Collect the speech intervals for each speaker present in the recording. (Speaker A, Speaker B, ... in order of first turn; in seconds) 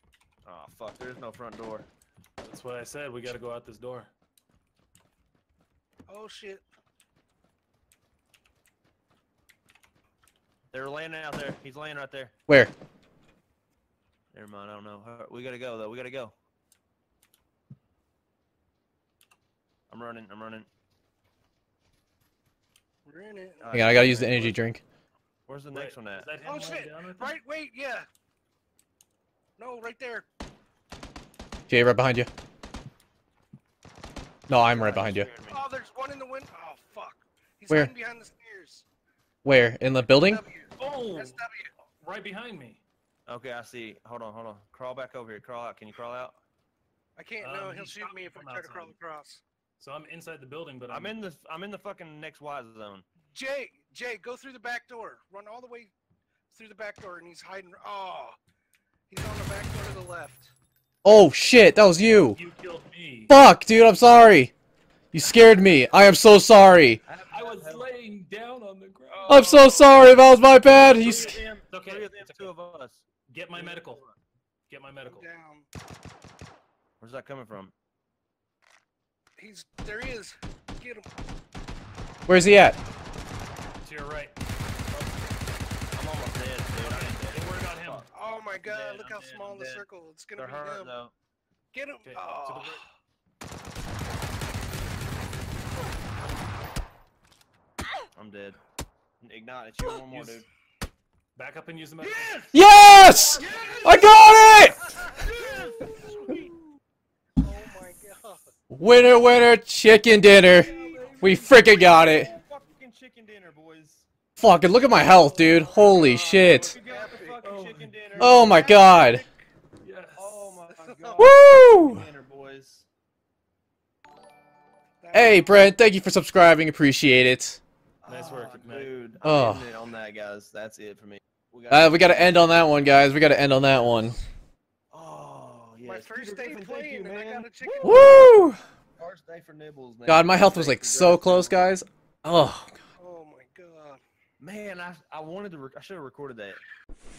Speaker A: 0.5-1.9, 10.7-12.4, 14.3-16.4, 19.9-20.7, 23.6-24.6, 25.5-26.3, 34.5-35.6, 43.3-46.4, 50.9-53.1, 67.0-67.9, 69.1-69.8, 70.7-74.2, 77.0-77.7, 85.9-91.1, 98.2-98.6, 99.2-100.5, 102.0-102.5, 103.4-104.2, 105.2-106.4, 110.6-114.1, 116.5-118.6, 120.2-122.9, 128.0-132.7, 134.9-138.2, 139.0-141.8, 144.4-146.6
Speaker B: 2.4-4.1, 25.7-27.4, 40.8-41.4, 42.0-42.8, 47.4-49.0, 49.8-51.2, 62.3-63.3, 67.3-69.9, 70.8-72.5, 73.3-74.0, 74.7-75.2, 83.8-84.3, 86.8-88.1, 92.0-92.9, 100.1-100.4, 101.3-104.1, 110.4-112.2, 117.4-118.3, 119.8-120.6, 128.1-129.0
Speaker C: 6.1-6.7, 23.1-23.8, 26.4-28.1, 29.6-30.3, 35.5-38.9, 40.2-41.7, 47.2-49.4, 53.3-55.9, 56.5-58.4, 59.1-60.5, 75.0-75.7, 79.4-81.1, 88.1-91.0, 91.7-92.8, 103.4-106.6, 107.4-108.5, 110.5-111.2, 115.0-117.4, 118.2-119.4, 120.7-121.3, 125.0-125.6, 135.8-138.3, 143.0-144.0
Speaker D: 23.7-24.8, 31.7-32.3, 34.5-35.3, 39.4-40.4, 61.0-62.4, 63.3-64.5, 65.1-67.0, 69.3-71.3, 82.3-82.8, 102.5-105.0, 108.7-112.3, 114.4-116.8, 118.2-119.2, 121.2-122.1, 125.1-127.6, 129.2-129.7, 131.7-134.2, 137.8-138.6, 140.1-142.7